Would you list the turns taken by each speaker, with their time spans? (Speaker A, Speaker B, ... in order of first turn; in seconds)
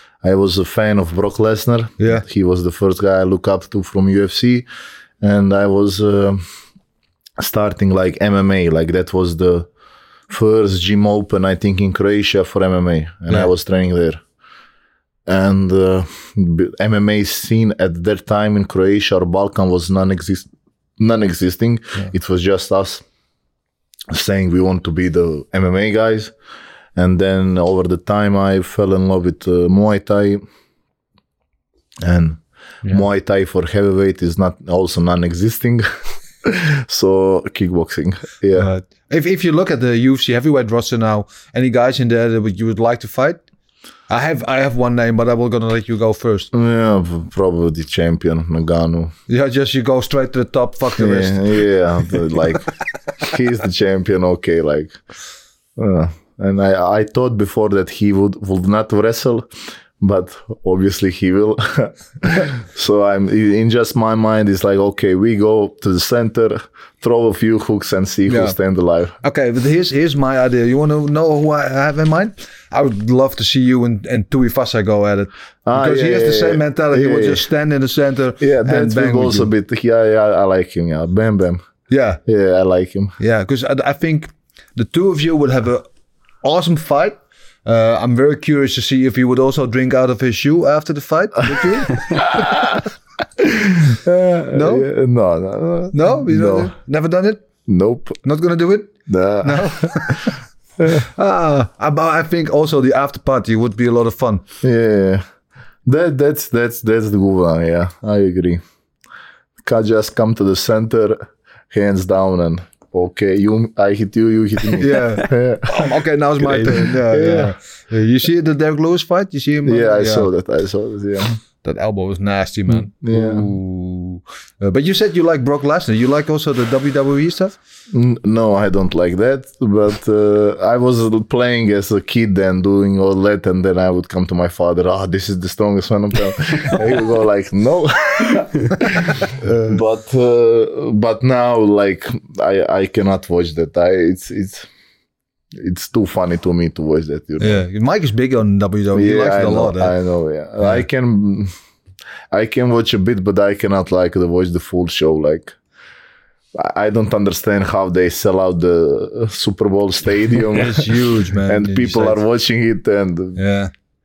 Speaker A: 0.2-4.7, 5.2-6.4, 7.4-9.7, 10.3-14.2, 15.2-23.0, 24.1-26.3, 26.9-30.4, 32.0-35.8, 36.4-38.7, 46.5-49.1, 51.0-55.0, 55.8-59.5, 60.0-69.1, 75.7-77.5, 78.4-81.6, 82.2-83.2, 92.3-92.8, 93.4-96.7, 97.7-98.2, 99.0-100.2, 104.6-105.2, 105.8-108.6, 109.6-115.9, 116.4-117.5, 119.7-121.4, 122.7-123.5, 127.9-144.7, 145.5-147.6, 148.9-151.5, 152.3-155.6, 156.5-163.4
Speaker B: 2.0-2.2, 38.5-43.4, 44.1-46.5, 49.3-51.7, 68.3-68.5, 69.2-79.5, 81.9-82.2, 83.2-85.8, 86.4-92.2, 94.5-94.9, 95.9-97.4, 98.2-104.4, 114.8-120.3, 121.6-127.5, 139.4-139.8, 147.4-149.9, 160.5-162.2, 163.3-163.7